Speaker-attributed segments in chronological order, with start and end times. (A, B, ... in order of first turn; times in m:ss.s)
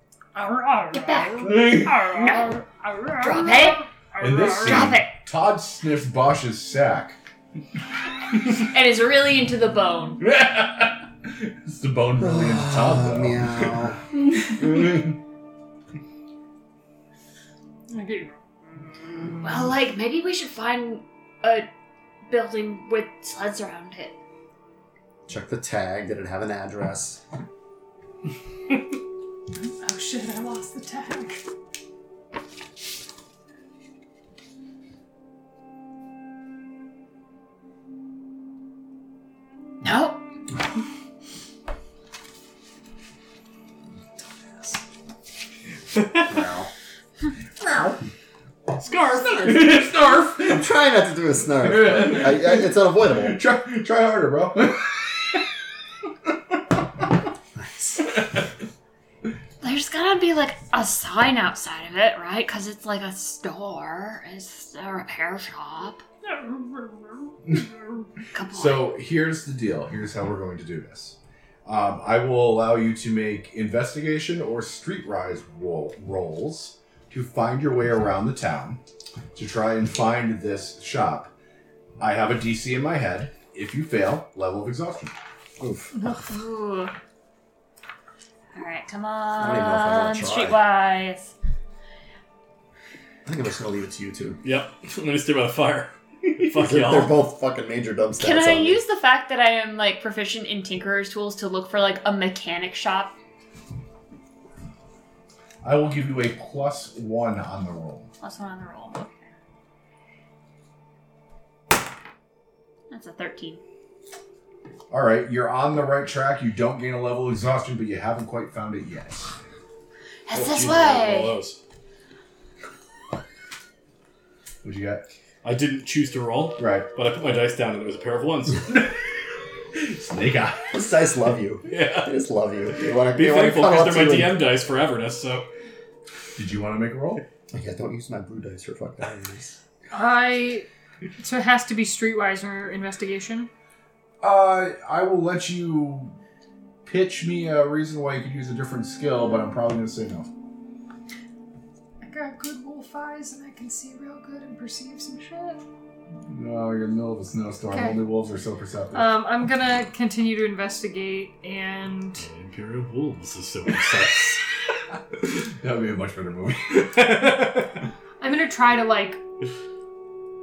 0:00.3-0:04.9 A
0:00.9-0:02.6 B
0:01.4-0:02.0 C
0:03.2-0:03.8 B
0:04.2-0:07.2 C
0:04.5-0:05.2 B
0:08.5-0:10.2 B
0:10.2-0:13.9 C
0:12.2-0:14.0 D
0:14.5-0:15.2 C
0:17.9-0:18.3 A
0:19.2-0:21.6 B
0:22.3-0:24.2 B
0:25.3-0:27.2 D
0:29.6-0:31.4 A
0:39.8-0:40.2 B
0:46.3-0:46.7 D
0:47.6-0:48.0 C
0:48.8-0:49.5 E
0:49.4-0:50.7 C
0:50.4-0:53.4 D
0:51.6-0:55.4 C
0:57.6-0:58.0 D
0:59.6-1:06.0 B
1:06.2-1:08.1 A
1:08.3-1:08.9 B
1:08.5-1:18.8 C
1:19.3-1:21.3 C
1:22.0-1:25.1 C
1:25.6-1:25.9 D
1:26.0-1:26.9 B
1:28.5-1:31.3 B
1:29.4-1:30.6 D
1:33.2-1:34.4 D
1:34.4-1:37.2 E
1:36.5-1:38.8 D
1:38.2-1:43.1 B
1:45.6-1:48.1 C
1:48.2-1:49.2 B
1:52.9-1:53.6 B
1:54.9-1:59.3 C
2:00.3-2:01.3 B
2:00.3-2:01.6 E
2:04.6-2:05.0 C
2:05.4-2:08.7 E
2:06.6-2:06.9 C
2:08.7-2:09.0 C
2:09.7-2:10.7 C
2:10.7-2:14.4 D
2:11.7-2:12.2 E
2:12.8-2:15.4 E
2:16.4-2:17.2 C
2:17.5-2:19.6 D
2:19.9-2:20.7 A
2:21.2-2:23.5 A
2:24.2-2:26.1 C
2:26.8-2:30.3 C
2:32.0-2:35.6 A
2:36.3-2:39.1 C
2:37.7-2:38.0 A
2:38.9-2:42.2 A
2:42.2-2:44.4 E
2:45.4-2:47.0 C
2:47.0-2:47.6 E
2:48.2-2:49.2 A